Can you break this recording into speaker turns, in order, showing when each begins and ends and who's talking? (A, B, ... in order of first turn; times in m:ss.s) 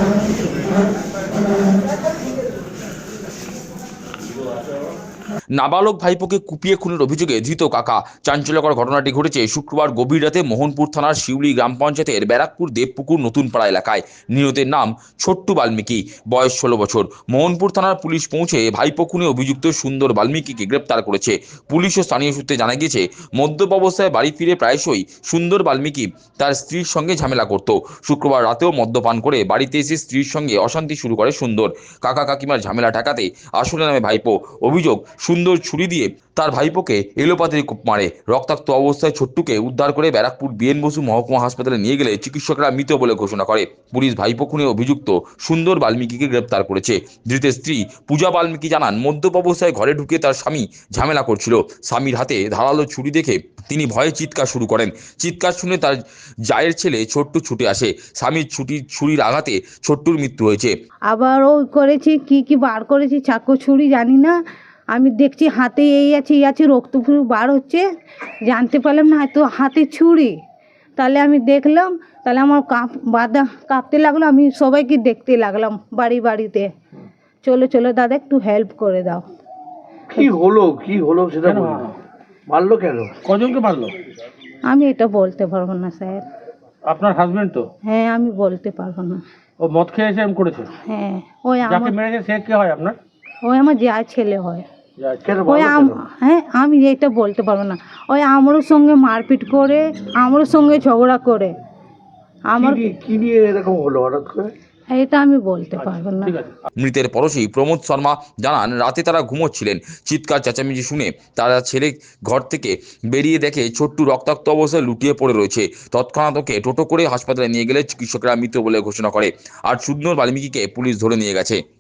0:05.5-1:00.8 A
1:01.1-1:04.4 B
1:04.9-1:07.9 B
1:08.5-1:10.4 B
1:11.0-1:16.7 B
1:17.4-1:19.2 B
1:20.1-1:21.9 C
1:21.5-1:21.9 D
1:22.5-1:23.2 C
1:23.2-1:24.0 D
1:24.6-1:26.2 B
1:26.9-1:27.7 D
1:27.8-1:29.2 B
1:29.6-1:30.7 D
1:30.8-1:32.0 B
1:31.7-1:33.0 D
1:33.4-1:34.6 B
1:35.0-1:35.2 D
1:35.2-1:36.0 C
1:35.4-1:41.6 B
1:42.5-1:42.8 B
1:42.6-1:44.5 C
1:44.9-1:46.4 B
1:46.8-2:01.6 A